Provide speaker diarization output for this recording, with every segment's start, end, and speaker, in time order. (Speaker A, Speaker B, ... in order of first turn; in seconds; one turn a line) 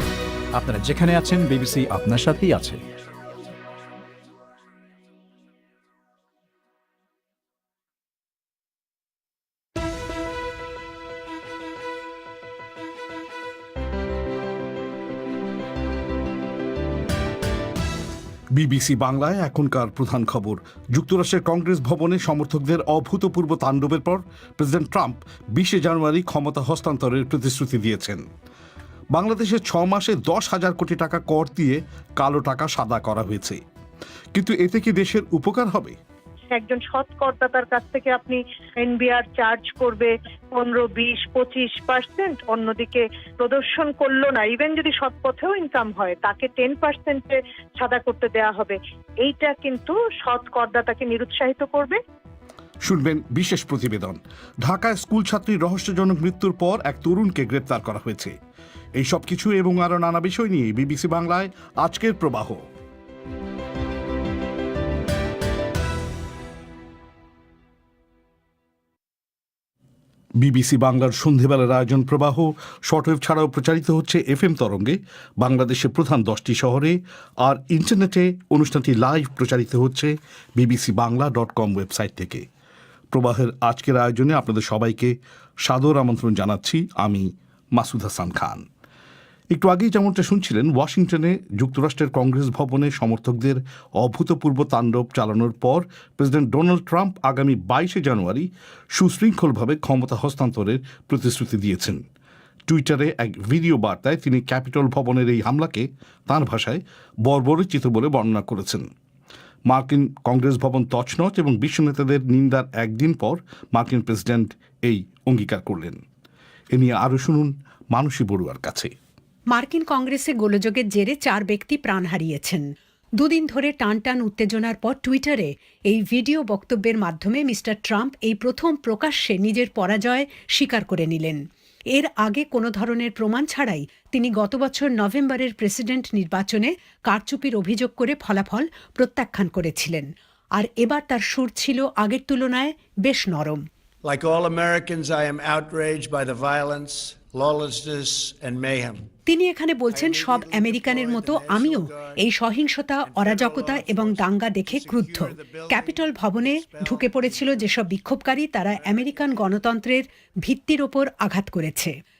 Speaker A: 0.6-2.8
Speaker B: 18.5-28.2
Speaker B: 29.1-33.6
Speaker B: 34.3-36.0
Speaker C: 36.5-52.0
Speaker B: 52.8-58.3
Speaker B: 59.0-62.6
Speaker B: 70.4-82.5
Speaker B: 83.1-88.6
Speaker B: 89.5-102.0
Speaker B: 102.7-108.9
Speaker B: 109.7-116.0
Speaker B: 116.7-118.9
Speaker D: 119.5-122.7
Speaker D: 123.2-131.4
Speaker D: 131.9-143.7
Speaker E: 144.0-149.1
Speaker D: 149.3-161.9
Speaker E: 149.9-152.2
Speaker E: 153.1-157.7
Speaker E: 158.7-159.5